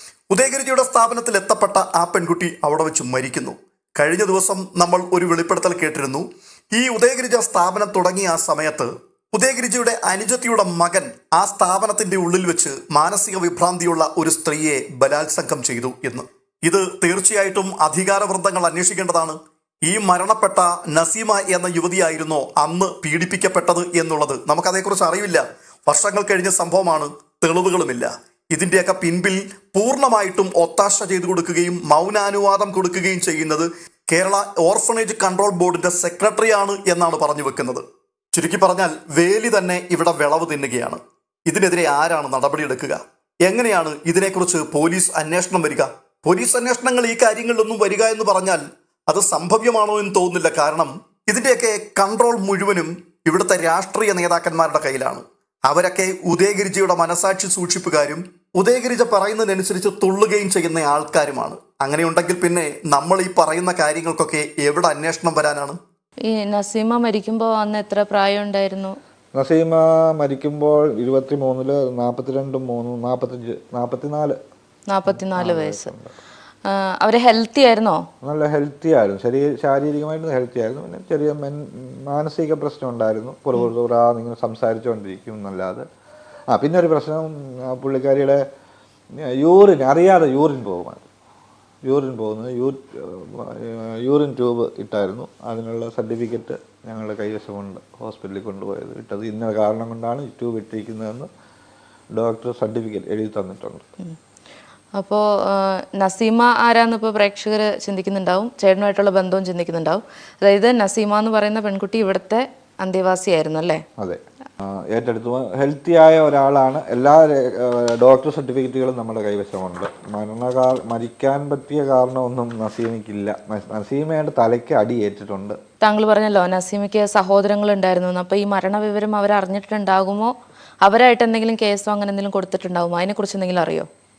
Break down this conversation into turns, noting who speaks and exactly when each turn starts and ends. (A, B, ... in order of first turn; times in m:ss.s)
0:00.3-1:05.8 A
1:06.3-1:08.9 B
1:09.4-1:14.4 C
1:14.9-1:15.9 B
1:15.1-1:16.1 C
1:16.6-1:18.0 B
1:18.2-1:25.8 C
1:26.5-1:28.4 C
1:29.2-1:31.0 C
1:31.8-1:41.3 C
1:42.1-1:43.8 C
1:44.9-1:53.8 B
1:54.0-2:05.6 C
2:05.8-2:10.3 B
2:10.8-2:13.9 B